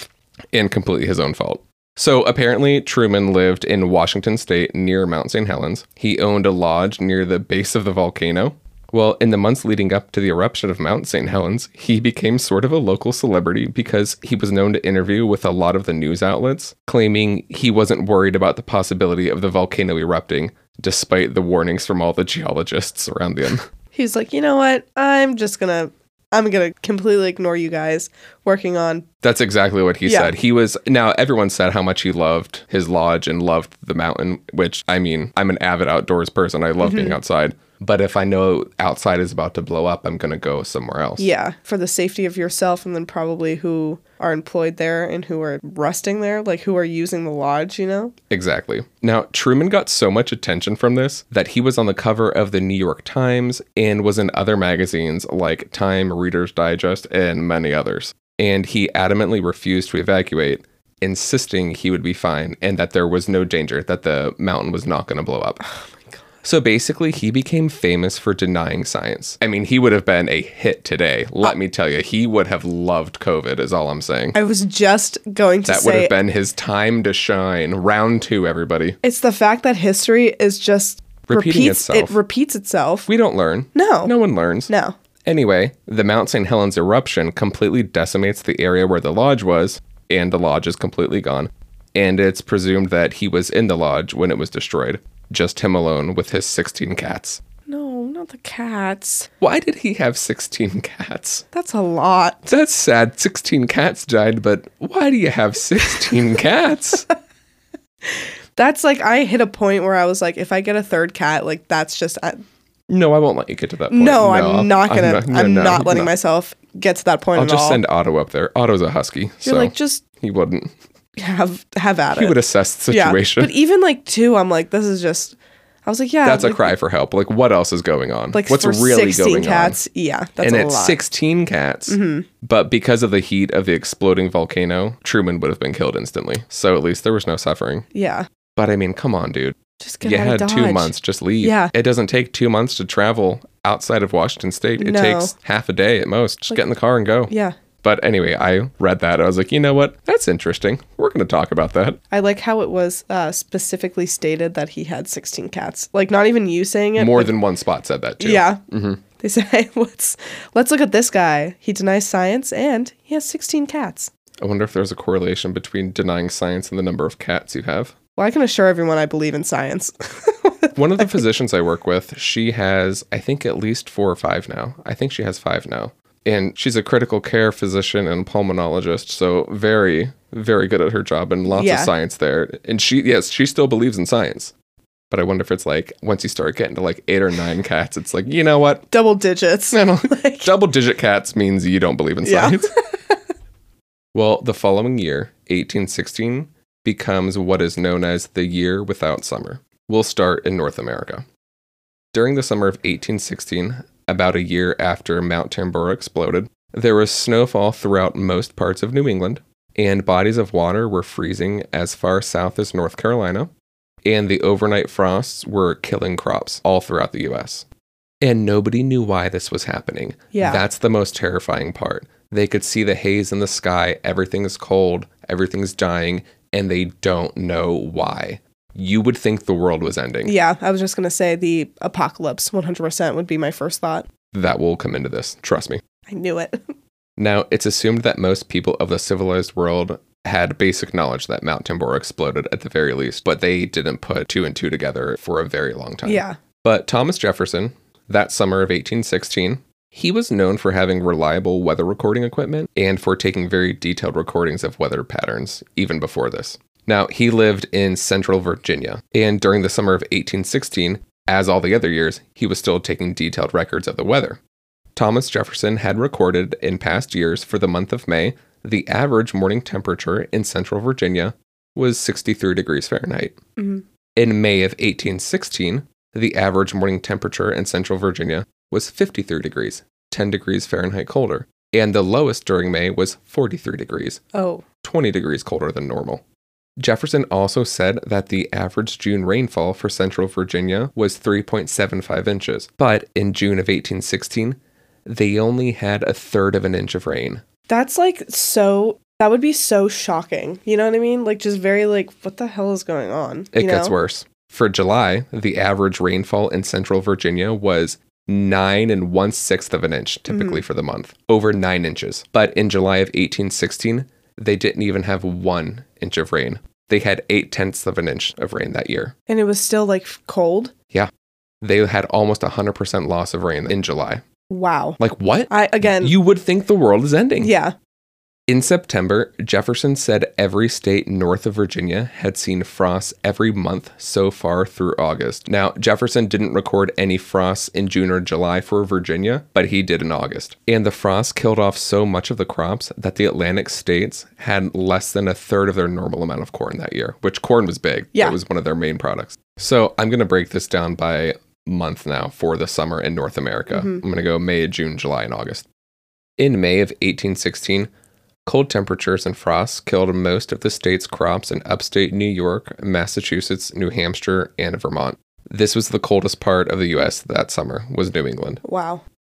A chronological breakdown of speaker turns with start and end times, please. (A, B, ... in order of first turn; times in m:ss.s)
0:00.5-0:23.6 A
0:23.9-0:29.0 B
0:29.2-0:41.3 A
0:30.0-0:30.3 B
0:36.8-0:37.2 B
0:41.2-0:48.1 B
0:48.3-1:05.6 A
1:06.4-1:14.4 A
1:14.3-1:16.1 B
1:15.6-1:19.0 A
1:19.0-1:23.1 B
1:21.2-1:22.2 A
1:23.1-1:24.7 A
1:23.7-1:24.1 B
1:24.7-1:25.0 B
1:25.2-1:37.4 A
1:37.7-1:39.3 B
1:39.4-1:41.4 A
1:41.5-1:42.5 B
1:42.5-1:47.1 A
1:48.0-1:52.4 B
1:52.9-1:56.1 A
1:53.9-1:57.8 B
1:57.3-2:00.7 A
1:59.4-2:00.0 B
2:01.2-2:02.4 B
2:02.1-2:03.5 A
2:02.9-2:06.7 B
2:06.2-2:09.8 A
2:08.3-2:11.0 B
2:10.4-2:17.8 A
2:11.9-2:12.3 B
2:17.9-2:18.3 B
2:18.6-2:27.3 A
2:19.8-2:21.7 B
2:24.8-2:25.3 B
2:27.3-2:27.6 B
2:27.8-2:32.0 A
2:32.1-2:37.3 B
2:37.0-2:39.0 A
2:38.2-2:38.6 B
2:39.2-2:44.1 B
2:44.4-2:47.9 A
2:48.2-2:51.0 B
2:50.7-3:04.5 A
3:01.5-3:01.9 B
3:05.1-3:08.9 A
3:08.9-3:10.5 B
3:09.7-3:12.7 A
3:12.2-3:12.9 B
3:14.1-3:21.2 A
3:22.1-3:33.5 A
3:34.0-3:37.6 A
3:38.2-3:50.3 A
3:40.3-3:40.6 B
3:50.2-3:54.1 B
3:54.3-3:55.8 A
3:56.1-3:56.6 B
3:57.2-4:24.4 A
4:06.0-4:06.4 B
4:25.0-4:33.4 A
4:33.6-4:33.8 B
4:34.2-4:44.2 A
4:44.3-4:44.6 B
4:44.8-4:46.2 A
4:46.8-4:57.4 A
4:57.7-5:03.9 B
5:03.5-5:19.1 A
5:10.3-5:10.6 B
5:19.3-5:20.7 B
5:21.6-5:24.2 A
5:24.5-5:25.0 B
5:25.0-5:27.5 A
5:25.5-5:26.1 B
5:27.4-5:27.7 B
5:28.5-5:55.6 A
5:53.7-5:54.0 B
5:56.4-5:57.9 A
5:58.4-6:08.6 A
6:08.6-6:09.0 B